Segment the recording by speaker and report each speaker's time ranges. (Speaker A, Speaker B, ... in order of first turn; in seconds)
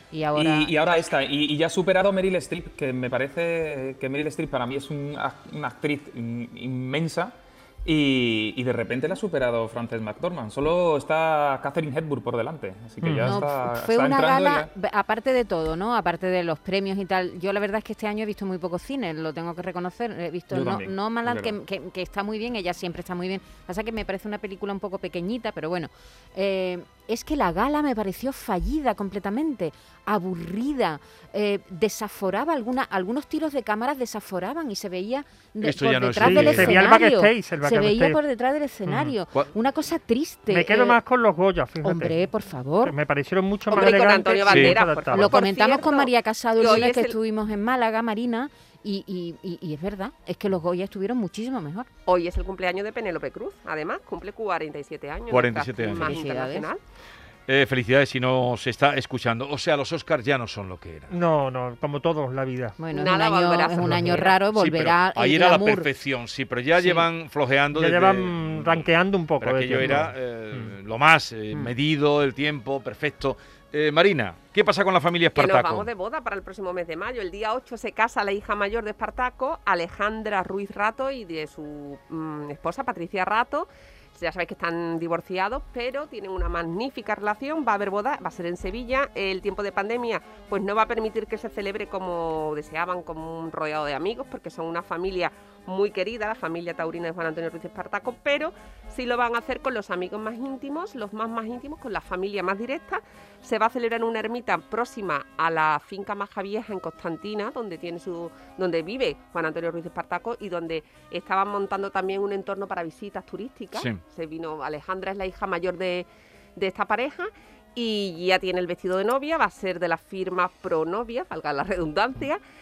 Speaker A: 0.1-0.7, 13.2-41.0, 41.8-42.9, 45.1-51.9, 55.9-56.7, 62.8-65.9, 66.8-67.0
Speaker B: 0.3-14.7, 20.5-21.6
Speaker C: 13.0-13.4, 36.2-38.2, 38.9-39.1, 40.5-42.1, 42.8-45.3, 61.1-62.8, 63.9-64.2, 67.7-70.7
Speaker D: 35.6-36.8, 44.5-44.8, 55.3-56.2, 57.5-61.1, 64.5-68.9, 69.4-75.9, 113.7-114.0
Speaker E: 43.7-47.1, 52.0-56.8, 62.9-64.3, 75.3-122.4